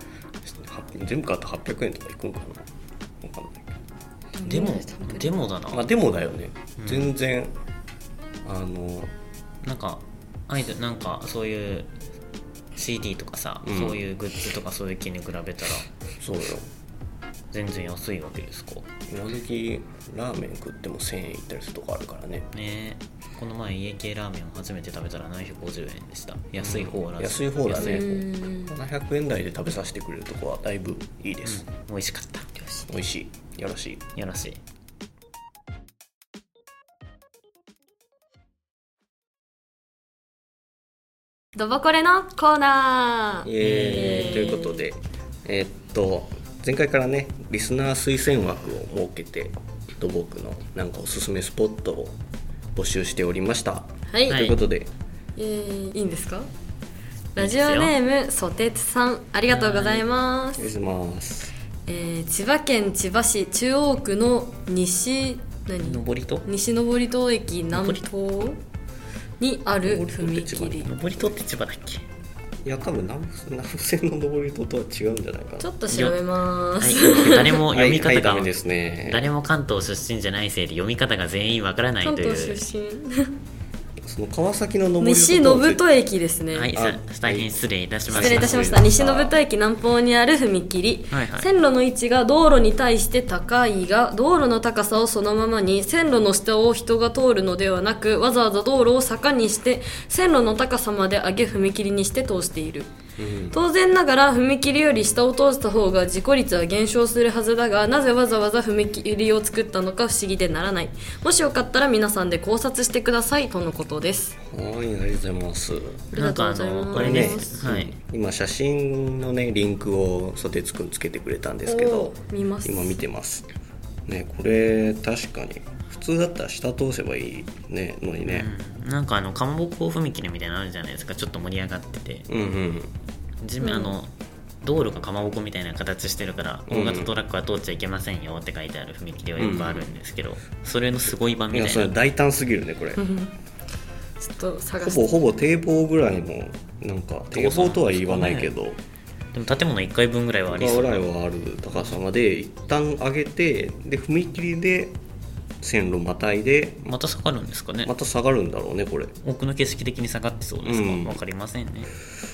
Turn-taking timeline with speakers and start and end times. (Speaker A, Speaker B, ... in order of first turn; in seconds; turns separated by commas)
Speaker A: 0.4-2.7, Speaker A: 3.2-3.7, Speaker B: 4.3-5.4, Speaker C: 4.4-5.9, Speaker A: 5.7-7.5, Speaker C: 6.8-7.1, Speaker A: 8.4-9.1, Speaker C: 9.6-11.9, Speaker C: 12.8-15.9, Speaker A: 13.6-14.0, Speaker A: 16.2-16.7, Speaker C: 17.5-18.9, Speaker A: 19.1-22.5, Speaker C: 22.5-28.1, Speaker A: 26.6-31.6, Speaker B: 27.7-28.7, Speaker C: 31.4-32.5, Speaker B: 32.5-32.9, Speaker A: 32.9-34.0, Speaker C: 34.1-34.6, Speaker B: 41.5-44.8, Speaker A: 43.4-52.2, Speaker C: 43.6-44.4, Speaker A: 52.8-54.9, Speaker B: 54.1-54.5, Speaker C: 54.3-54.6, Speaker B: 55.4-56.5, Speaker B: 57.3-60.7, Speaker C: 57.4-57.9, Speaker C: 59.5-60.0, Speaker A: 60.5-61.5, Speaker B: 61.9-68.6, Speaker C: 65.8-66.5, Speaker C: 67.7-68.0, Speaker B: 69.4-70.9, Speaker A: 69.8-71.3, Speaker C: 70.8-72.0, Speaker A: 72.6-75.7, Speaker B: 75.6-77.6, Speaker C: 75.9-76.2, Speaker C: 76.8-78.5, Speaker A: 77.1-79.3, Speaker C: 79.0-82.6, Speaker B: 82.0-83.3, Speaker A: 84.0-86.0, Speaker B: 85.0-86.7, Speaker C: 86.5-88.7, Speaker A: 86.8-87.5, Speaker A: 88.1-89.3, Speaker B: 88.1-102.9, Speaker C: 91.1-91.5, Speaker A: 103.2-103.6, Speaker B: 103.5-114.4, Speaker A: 114.4-116.0, Speaker B: 116.1-117.7, Speaker C: 116.1-117.9, Speaker A: 116.9-122.1, Speaker B: 121.7-123.0, Speaker A: 122.6-123.5, Speaker A: 124.0-128.5, Speaker C: 128.2-132.3, Speaker A: 132.3-132.9, Speaker C: 133.4-134.1, Speaker B: 133.6-133.9, Speaker C: 134.6-141.9, Speaker A: 136.7-137.1, Speaker A: 139.4-139.9, Speaker A: 141.5-143.0, Speaker B: 143.0-143.3, Speaker B: 144.2-145.2, Speaker A: 144.8-148.8, Speaker C: 147.3-148.5, Speaker C: 149.3-151.0, Speaker A: 150.5-155.0, Speaker A: 155.6-156.9, Speaker C: 156.9-157.9, Speaker A: 157.8-159.1, Speaker C: 159.2-161.9, Speaker A: 160.6-161.2